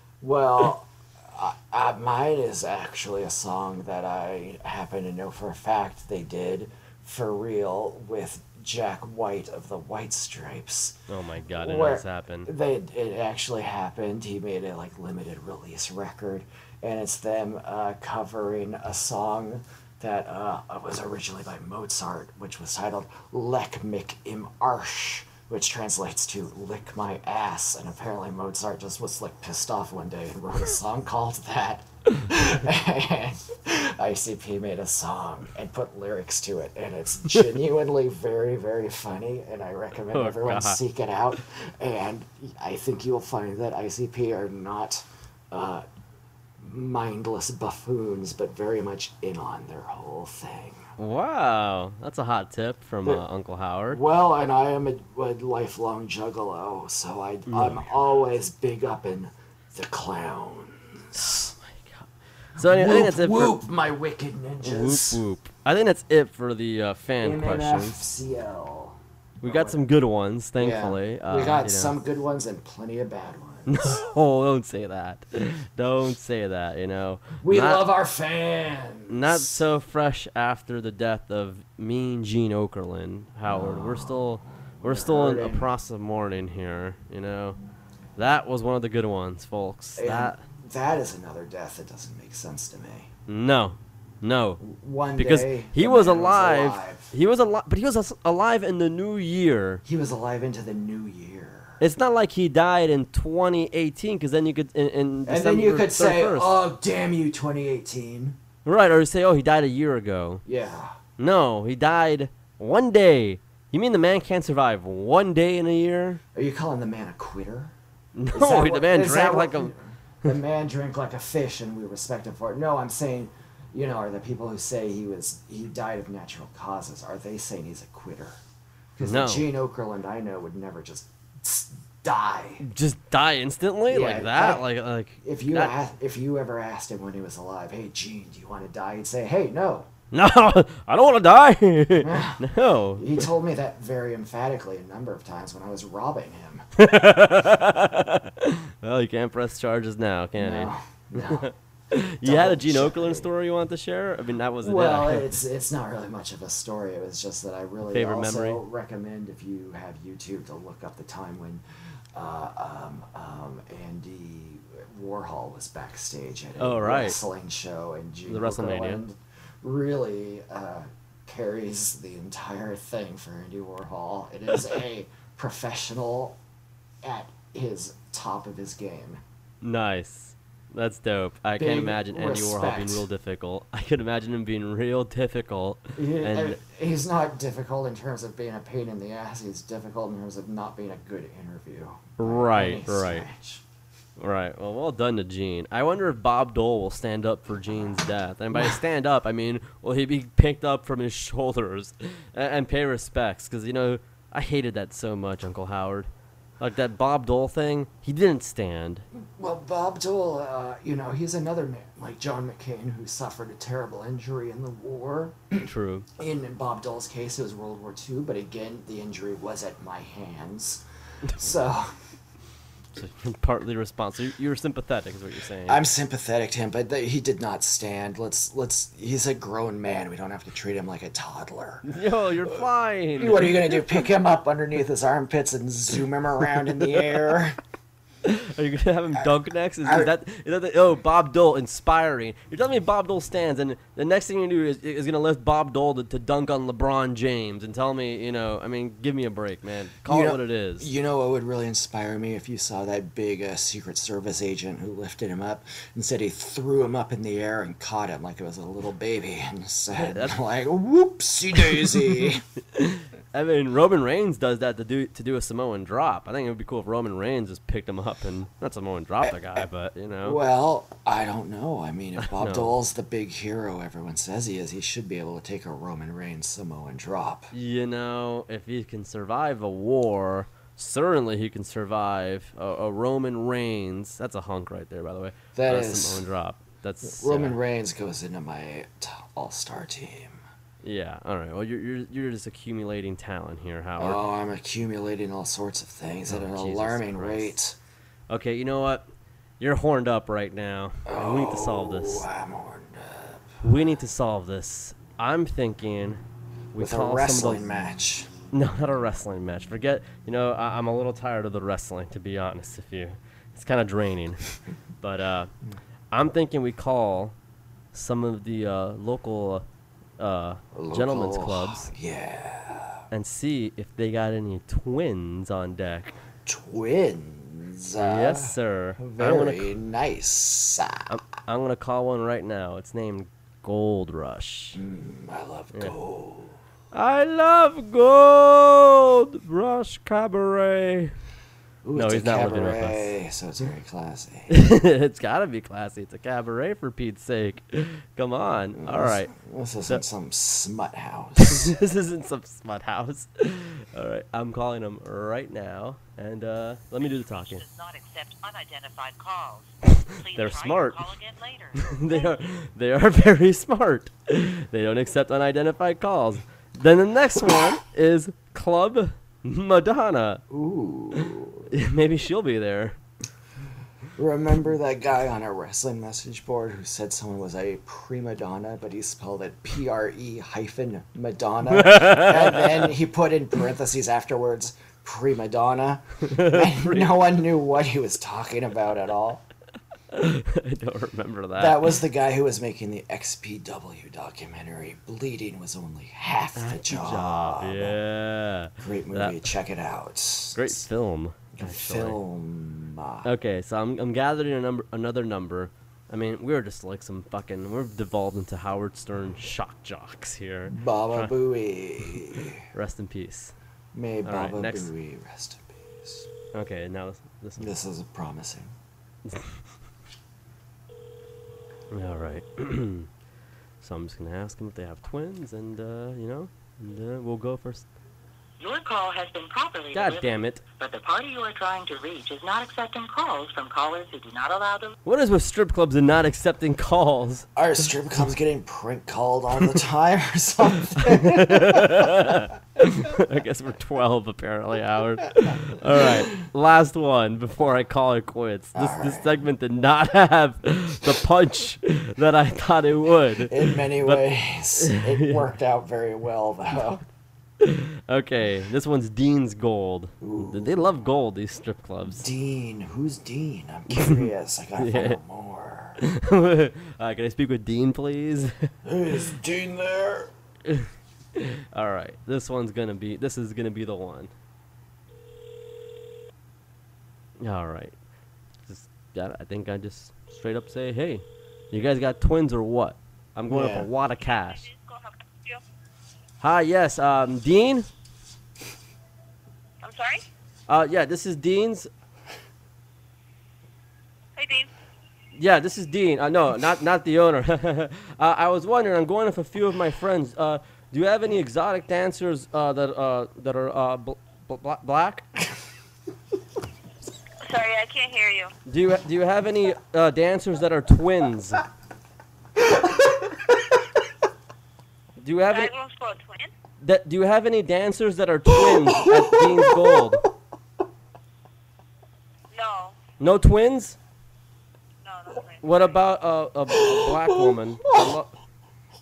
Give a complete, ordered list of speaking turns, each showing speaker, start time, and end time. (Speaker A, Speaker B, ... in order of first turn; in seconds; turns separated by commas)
Speaker A: 0.2-11.0, Speaker B: 11.1-12.5, Speaker A: 11.6-45.9, Speaker B: 40.1-40.8, Speaker A: 46.6-50.9, Speaker B: 51.0-54.0, Speaker A: 53.9-61.5, Speaker B: 57.5-57.9, Speaker B: 61.1-63.6, Speaker A: 62.6-65.2, Speaker B: 64.6-68.0, Speaker A: 67.2-69.8, Speaker B: 69.4-71.9, Speaker A: 70.6-74.0, Speaker B: 73.7-77.8, Speaker A: 77.4-79.6, Speaker B: 79.1-87.6, Speaker A: 83.5-84.2, Speaker A: 84.8-85.7, Speaker B: 88.2-90.4, Speaker A: 90.0-93.1, Speaker B: 93.3-94.6, Speaker A: 94.6-97.1, Speaker B: 95.2-99.8, Speaker A: 99.8-101.8, Speaker B: 101.8-106.5, Speaker A: 105.3-108.4, Speaker B: 108.7-110.4, Speaker A: 110.5-111.0, Speaker B: 111.2-116.2, Speaker A: 116.3-117.7, Speaker B: 118.2-119.7, Speaker A: 118.3-128.4, Speaker A: 129.0-132.6, Speaker B: 129.0-129.5, Speaker B: 132.6-135.7, Speaker A: 133.9-134.7, Speaker A: 135.2-139.9, Speaker B: 140.1-143.3, Speaker A: 142.0-146.7, Speaker B: 146.8-150.7, Speaker A: 150.4-151.5, Speaker B: 151.3-155.3, Speaker A: 152.2-153.3, Speaker A: 154.6-161.6, Speaker B: 157.8-158.6, Speaker A: 162.1-176.4, Speaker B: 166.6-167.2, Speaker B: 168.3-169.0, Speaker A: 177.0-179.2, Speaker B: 179.6-186.6, Speaker A: 181.6-183.1, Speaker A: 186.0-193.6, Speaker B: 192.2-193.3, Speaker B: 194.2-209.1, Speaker A: 198.5-198.8, Speaker A: 209.1-220.8, Speaker B: 215.6-216.1, Speaker A: 221.4-222.0, Speaker B: 223.0-225.8, Speaker A: 225.7-231.9, Speaker B: 231.8-233.9, Speaker A: 233.2-237.6, Speaker B: 238.2-250.9, Speaker A: 239.8-240.1, Speaker A: 250.1-262.4, Speaker B: 259.9-260.4, Speaker B: 261.6-270.4, Speaker A: 269.2-269.6, Speaker A: 270.2-277.5, Speaker B: 272.2-272.7, Speaker B: 277.5-287.6, Speaker A: 285.6-286.2, Speaker A: 287.0-290.4, Speaker B: 290.8-294.2, Speaker A: 294.0-297.8, Speaker B: 296.3-297.5, Speaker B: 298.3-299.1, Speaker B: 299.6-302.3, Speaker A: 301.1-303.6, Speaker B: 303.6-306.2, Speaker B: 306.7-307.6, Speaker A: 306.8-308.3, Speaker B: 308.5-314.4, Speaker B: 315.0-315.5, Speaker B: 316.1-317.4, Speaker B: 317.9-319.6, Speaker B: 320.2-321.9, Speaker A: 320.8-323.0, Speaker B: 323.1-326.1, Speaker A: 326.4-331.1, Speaker B: 328.0-329.7, Speaker B: 331.1-334.8, Speaker A: 334.8-336.6, Speaker B: 336.9-341.1, Speaker A: 341.8-344.5, Speaker B: 341.9-343.1, Speaker B: 344.5-349.3, Speaker A: 348.8-351.7, Speaker B: 351.4-357.6, Speaker C: 357.5-362.3, Speaker B: 360.0-361.1, Speaker B: 361.8-370.4, Speaker A: 370.5-371.7, Speaker B: 371.7-373.0, Speaker A: 374.2-389.4, Speaker B: 381.7-382.9, Speaker B: 386.2-387.2, Speaker B: 390.1-392.0, Speaker A: 391.6-398.0, Speaker B: 396.6-399.4, Speaker A: 398.8-400.9, Speaker B: 400.6-402.2, Speaker A: 401.6-403.3, Speaker B: 403.2-411.3, Speaker A: 410.7-412.6, Speaker B: 412.7-413.5, Speaker A: 413.9-416.3, Speaker B: 414.2-414.9, Speaker B: 416.5-417.7, Speaker A: 417.6-418.7, Speaker B: 419.3-419.6, Speaker B: 421.9-423.1, Speaker B: 423.8-427.9, Speaker C: 428.6-435.0, Speaker B: 429.9-430.6, Speaker B: 435.1-437.5, Speaker A: 437.6-442.4, Speaker B: 441.0-454.2, Speaker A: 445.9-446.3, Speaker A: 448.7-449.3, Speaker A: 453.4-457.0, Speaker B: 454.8-455.4, Speaker B: 457.6-462.3, Speaker A: 460.2-460.8, Speaker A: 462.2-466.0, Speaker B: 463.9-464.3, Speaker B: 464.8-465.2, Speaker B: 466.0-468.7, Speaker A: 468.9-470.3, Speaker B: 470.7-474.3, Speaker B: 477.4-478.0, Speaker B: 478.6-484.7, Speaker A: 483.5-483.9, Speaker C: 484.3-485.6, Speaker B: 486.4-487.9, Speaker C: 489.8-490.2, Speaker B: 490.7-491.9, Speaker C: 494.4-494.7, Speaker B: 495.4-505.3, Speaker C: 507.4-508.5, Speaker B: 508.7-511.6, Speaker B: 515.2-515.7, Speaker C: 515.5-516.5, Speaker B: 516.8-520.3, Speaker A: 518.6-520.0, Speaker C: 522.5-523.0, Speaker B: 523.2-524.0, Speaker C: 525.0-525.9, Speaker B: 525.6-528.3, Speaker A: 526.7-528.1